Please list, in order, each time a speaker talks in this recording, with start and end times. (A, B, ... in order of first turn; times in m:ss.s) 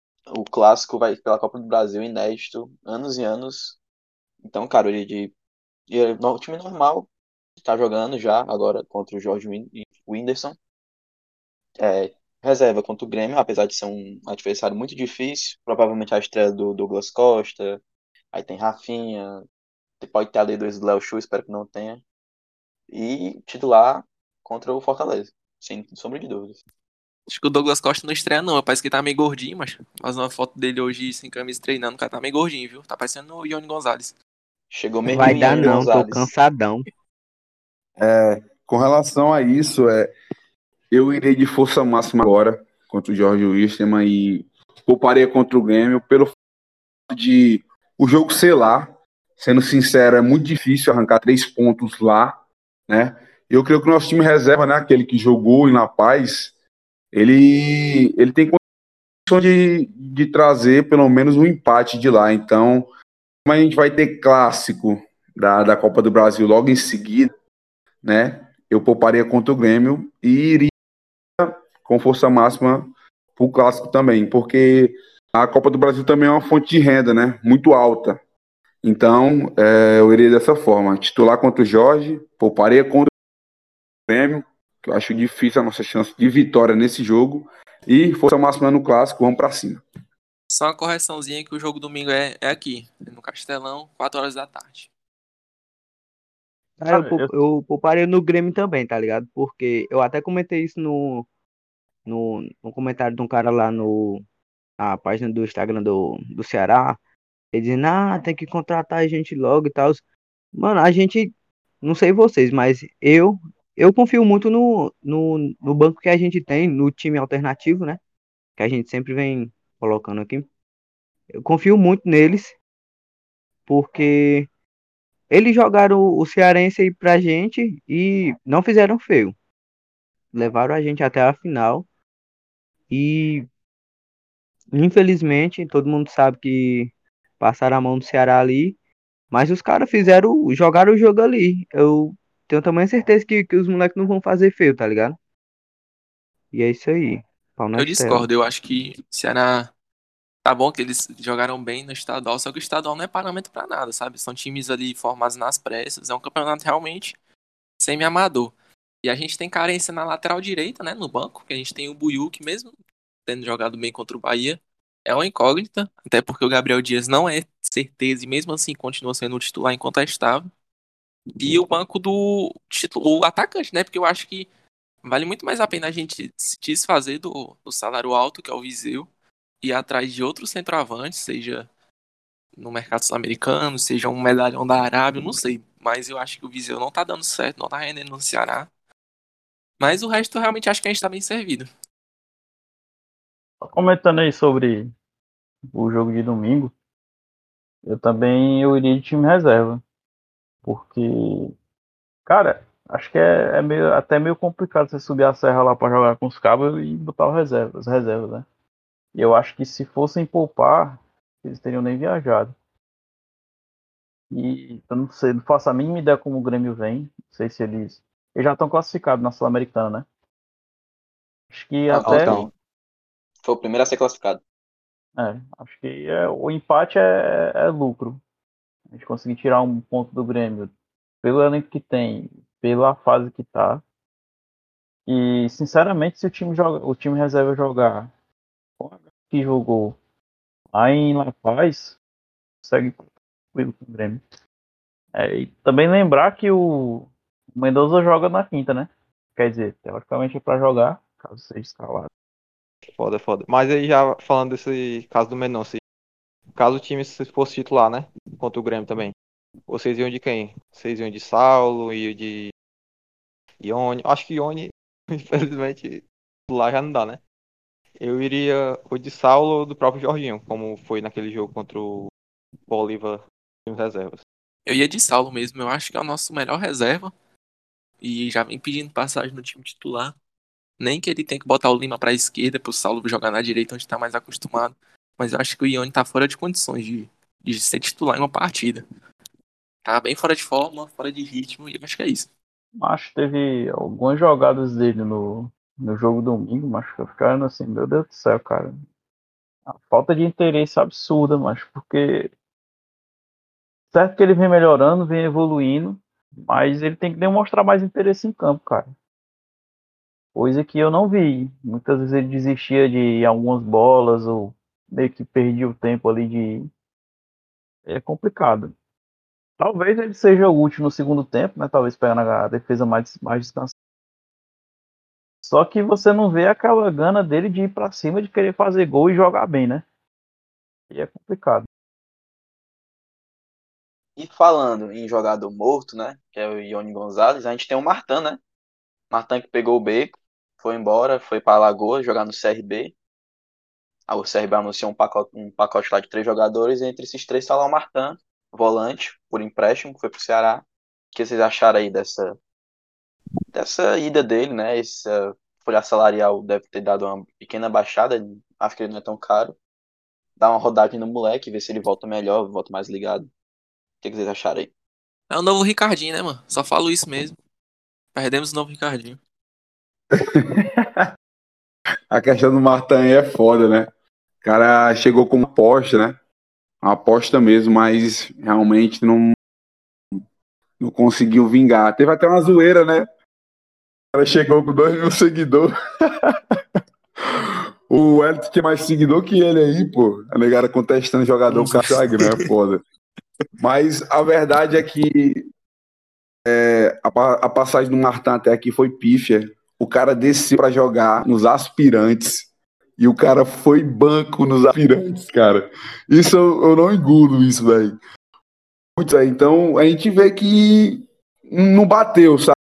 0:00.3-0:03.8 A
0:04.4-0:05.3 A
0:05.9-0:07.1 A
0:07.6-0:10.6 A
0:11.8-0:17.8 A
0:18.3-0:19.4 A
0:20.0-0:22.0 A
0:22.9-0:26.6 A
0:27.3-0:34.2 B
0:34.7-0:36.3 A
0:35.1-0:36.9 C
0:38.0-0:40.1 D
0:40.9-0:46.4 D
0:47.1-0:56.5 D
0:57.1-0:58.6 D
0:59.3-1:02.9 D
1:03.5-1:07.3 D
1:08.0-1:10.7 D
1:11.4-1:18.2 D
1:18.8-1:23.1 D
1:24.1-1:29.8 D
1:30.5-1:34.9 B
1:36.8-1:41.3 C
1:36.9-1:37.3 E
1:42.1-1:44.2 C
1:44.8-1:47.0 C
1:47.5-1:50.0 C
1:50.6-1:58.0 C
1:58.6-2:00.5 C
2:01.4-2:02.6 C
2:03.7-2:04.5 C
2:05.3-2:09.4 C
2:10.3-2:11.9 C
2:12.9-2:13.5 C
2:14.7-2:18.8 C
2:19.3-2:25.2 C
2:26.5-2:28.3 C
2:27.8-2:29.7 B
2:30.4-2:37.2 B
2:37.8-2:42.7 B
2:43.3-2:50.5 B
2:51.4-2:54.5 B
2:55.0-2:59.1 B
2:59.6-3:01.7 B
3:02.6-3:08.7 B
3:09.8-3:11.7 B
3:13.6-3:14.9 E
3:15.7-3:16.7 E
3:17.9-3:19.8 E
3:20.6-3:21.5 E
3:22.3-3:28.4 E
3:29.2-3:32.5 E
3:34.3-3:40.1 E
3:41.5-3:42.4 E
3:41.9-3:42.5 A
3:42.0-3:42.5 F
3:43.4-3:44.4 A
3:45.2-3:48.2 E
3:48.9-3:50.7 E
3:51.2-3:53.8 E
3:55.1-3:58.1 E
3:58.8-4:00.0 E
4:00.7-4:02.0 E
4:02.6-4:04.2 E
4:05.2-4:12.1 E
4:13.0-4:15.8 F
4:16.6-4:19.1 F
4:19.7-4:22.5 F
4:23.6-4:27.2 F
4:28.0-4:32.1 F
4:32.7-4:34.2 F
4:34.7-4:37.1 B
4:38.0-4:40.1 B
4:40.8-4:48.8 B
4:49.8-4:52.3 B
4:52.8-4:58.8 E
4:59.7-5:02.3 E
5:03.9-5:08.9 E
5:10.4-5:16.7 E
5:17.9-5:18.7 E
5:19.6-5:23.7 E
5:25.4-5:29.8 E
5:30.9-5:31.7 E
5:34.2-5:38.4 A
5:39.1-5:42.9 A
5:44.1-5:52.4 A
5:53.5-5:59.6 A
6:00.4-6:03.3 A
6:04.0-6:04.7 A
6:05.3-6:07.4 B
6:08.1-6:09.2 B
6:10.1-6:11.1 D
6:12.1-6:13.9 D
6:14.4-6:16.2 D
6:16.8-6:19.4 D
6:20.8-6:23.1 D
6:24.1-6:25.7 D
6:26.2-6:26.6 D
6:27.9-6:32.8 D
6:31.5-6:32.5 B
6:33.6-6:35.4 D
6:36.5-6:48.0 D
6:49.0-6:52.6 D